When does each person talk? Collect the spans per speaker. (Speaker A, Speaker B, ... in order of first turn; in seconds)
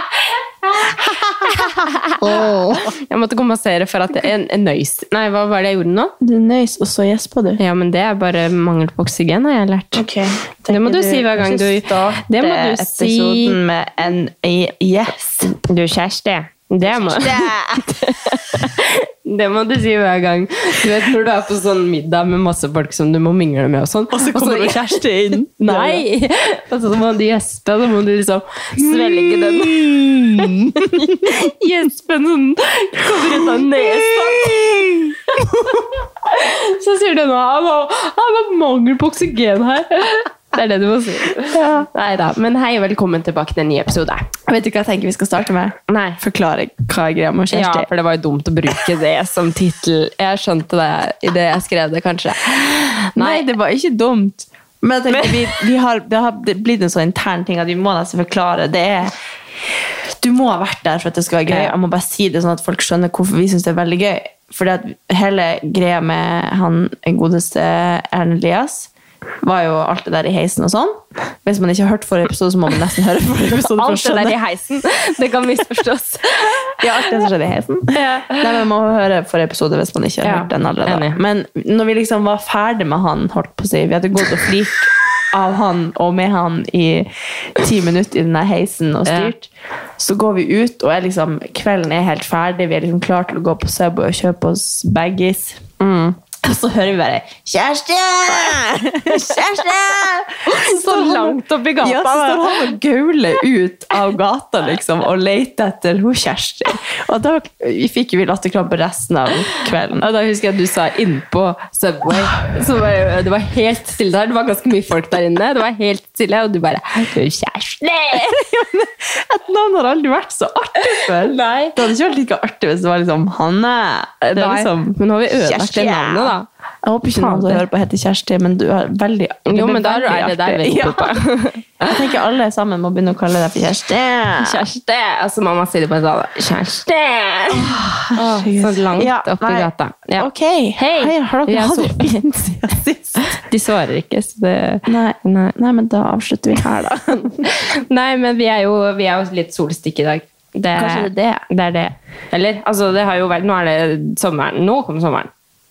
Speaker A: 0.7-2.9, 6.2-7.6, 9.9-15.5, 16.9-18.1, 24.1-26.0, 28.8-31.4, 33.2-35.8, 41.5-41.9, 44.5-47.9, 53.1-59.1, 60.1-68.9, 69.4-74.4, 76.8-95.6, 96.4-110.1, 118.1-131.2, 131.8-134.6, 137.5-143.4, 144.9-147.4, 150.8-151.4
Speaker B: 1.5-6.1, 7.6-10.0, 10.7-13.6, 15.4-25.0, 25.6-44.3, 45.9-46.2, 47.5-53.5, 55.1-55.6, 61.5-61.7, 73.5-77.3, 77.9-78.5, 80.2-81.2, 89.1-89.3, 95.8-96.2, 100.5-102.7, 110.0-118.5, 121.0-121.8, 124.2-126.5, 127.1-127.6, 129.5-131.9, 134.4-142.2, 143.2-145.5, 147.1-155.3